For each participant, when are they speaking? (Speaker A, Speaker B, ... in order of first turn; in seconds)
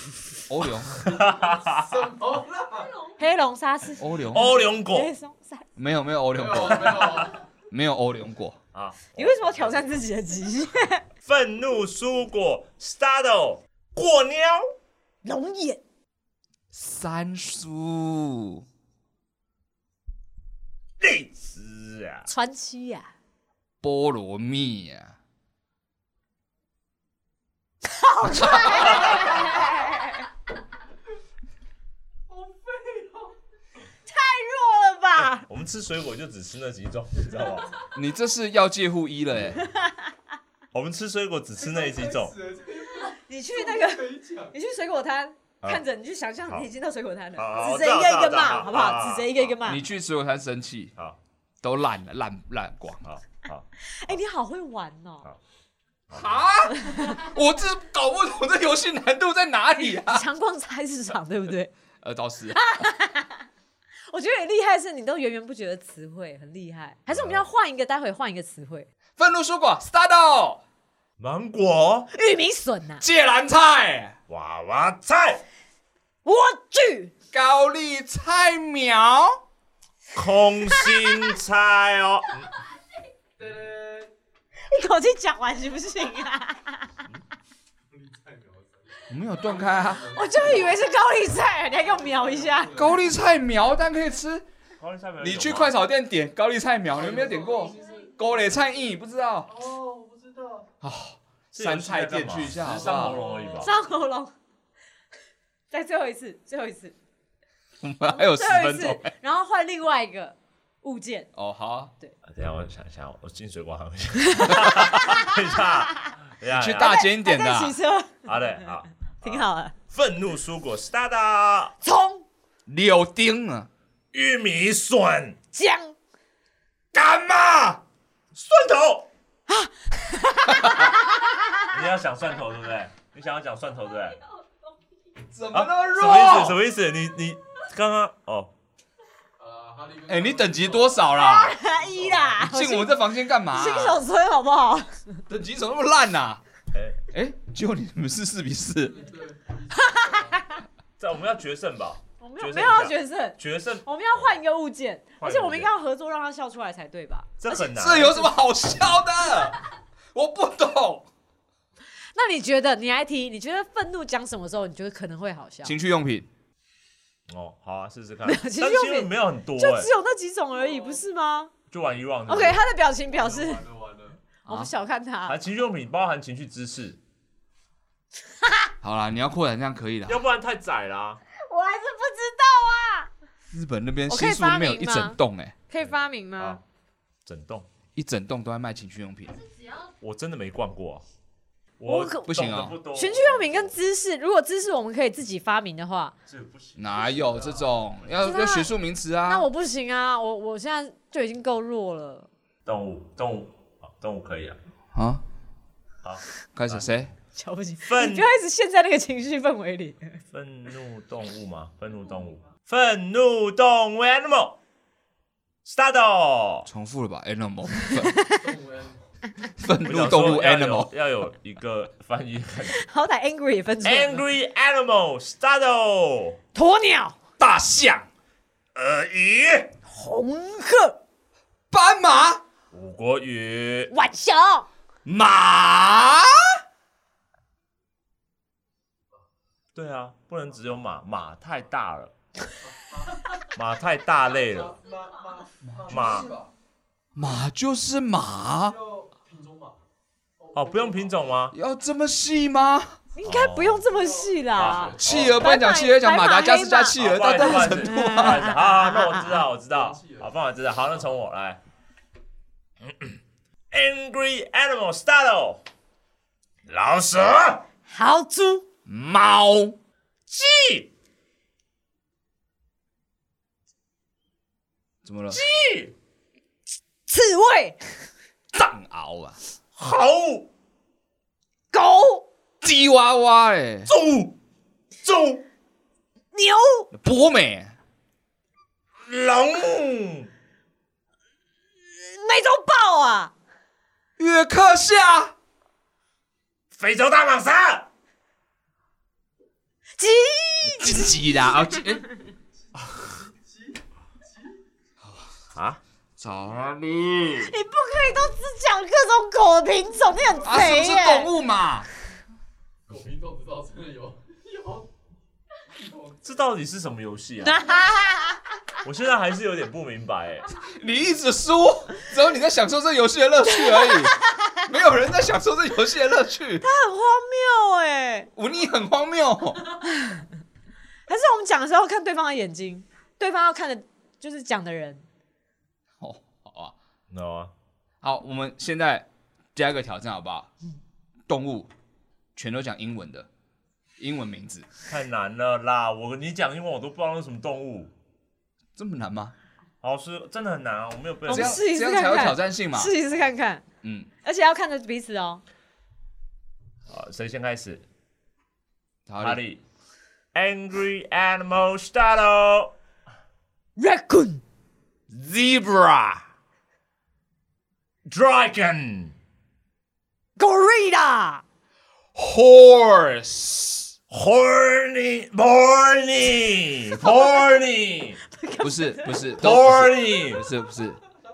Speaker A: 0.5-1.0, 4.0-4.5, 5.8-8.6, 16.7-18.6, 23.8-25.1, 28.3-28.8, 37.9-39.7, 49.6-50.9, 51.6-53.0, 56.1-60.2, 62.0-62.8, 69.2-70.6, 73.0-74.2, 77.3-79.4, 89.1-90.1, 92.7-94.5, 95.2-99.5, 100.8-103.2, 107.8-109.1, 111.3-111.9, 116.5-117.8, 122.7-123.7, 126.9-127.8, 135.3-136.6, 140.1-141.6, 142.4-144.0, 145.3-146.4, 147.1-149.0, 157.7-159.6, 160.1-161.1, 165.6-166.3, 178.8-180.2, 183.5-185.5, 187.9-189.4, 192.2-192.8, 196.8-199.4, 204.9-205.2, 206.5-207.1, 216.7-218.2, 219.6-220.9, 227.4-228.1, 231.7-232.4, 235.1-236.6, 247.1-248.8, 251.5-253.0, 255.0-258.5, 268.9-269.8, 275.0-275.4, 278.5-279.4, 282.6-283.9, 286.9-287.7, 294.2-295.3, 300.6-302.0, 306.2-307.5, 310.4-311.9, 320.7-326.6, 328.4-329.7, 336.0-336.7, 338.0-340.5, 341.3-341.7, 342.4-343.3, 344.0-344.6, 348.8-349.3, 351.3-352.9, 353.8-354.1, 359.1-359.4, 365.1-366.2, 372.1-373.9, 378.6-381.0
Speaker B: 0.9-2.0, 4.3-5.1, 8.7-9.9, 11.2-14.7, 21.0-22.3, 28.7-29.4, 35.2-37.7, 40.7-42.3, 47.4-49.6, 53.0-54.2, 67.1-67.5, 71.2-72.1, 74.3-75.4, 80.1-82.5, 94.8-95.8, 101.5-103.7, 112.2-117.0, 118.2-121.7, 124.1-125.4, 128.3-129.1, 131.7-134.2, 135.5-138.5, 146.7-147.0, 151.0-154.3, 155.2-155.7, 157.4-158.3, 167.3-169.9, 171.7-172.6, 175.2-177.0, 180.1-181.2, 185.8-186.6, 187.2-187.7, 189.9-191.0, 191.8-193.8, 196.2-197.7, 202.6-204.6, 206.0-206.9, 207.8-208.3, 210.3-214.6, 215.6-216.7, 219.8-222.8, 223.8-226.4, 228.7-229.7, 232.7-233.9, 239.7-242.1, 243.5-244.8, 245.9-246.3, 250.5-251.5, 253.2-253.8, 254.5-255.4, 256.9-261.6, 262.8-263.2, 263.7-265.6, 266.6-267.6, 270.3-270.9, 275.3-275.9, 279.8-280.5, 283.9-284.4, 285.0-285.4, 289.0-290.3, 296.7-297.9, 305.5-305.8, 316.2-317.7, 318.8-320.5, 337.1-337.5, 344.9-347.9, 349.8-351.6, 356.9-357.8, 359.2-359.6, 360.3-362.7, 368.1-369.1, 374.1-378.2, 379.4-380.4
Speaker C: 1.5-3.0, 6.3-7.4, 32.3-33.3, 41.6-44.5, 83.4-84.1, 87.9-90.9, 91.8-93.2, 96.9-98.1, 99.5-100.7, 102.6-103.7, 139.4-142.4, 148.9-150.6, 170.6-171.0, 173.1-174.2, 218.3-219.0, 242.6-243.3, 244.3-246.5, 248.6-249.8, 250.4-251.3, 253.8-255.4, 259.7-260.3, 302.8-304.6, 312.9-314.9, 315.7-316.5
Speaker D: 3.1-5.7, 9.1-11.0, 15.2-15.8, 22.3-23.1, 27.8-30.2, 34.1-35.5, 43.1-49.8, 53.9-55.2, 56.7-57.1, 59.8-61.7, 62.5-63.4, 64.1-68.9, 72.1-73.0, 76.2-77.1, 80.7-81.1, 84.7-86.9, 90.1-92.9, 103.5-104.3, 105.7-106.9, 108.0-111.3, 114.2-116.1, 116.8-118.3, 119.2-119.7, 121.8-122.2, 125.5-125.9, 129.5-131.7, 141.2-145.0, 149.8-150.3, 152.2-157.4, 162.1-165.7, 168.2-171.5, 172.3-173.6, 174.4-175.3, 178.4-178.7, 181.3-183.1, 184.1-185.2, 185.7-186.6, 191.8-196.1, 198.2-198.7, 199.2-202.3, 207.3-210.2, 217.9-218.4, 222.7-224.2, 226.5-227.2, 229.9-231.0, 233.9-234.7, 253.1-259.4, 267.9-268.6, 277.1-277.8, 281.7-282.2, 286.3-286.9, 291.9-293.3, 300.0-301.3, 307.4-311.3, 317.4-318.4, 323.5-324.5, 326.6-328.3, 329.9-330.2, 331.1-335.0, 351.3-353.6, 354.2-355.4, 363.8-364.4, 370.4-371.4, 378.3-379.4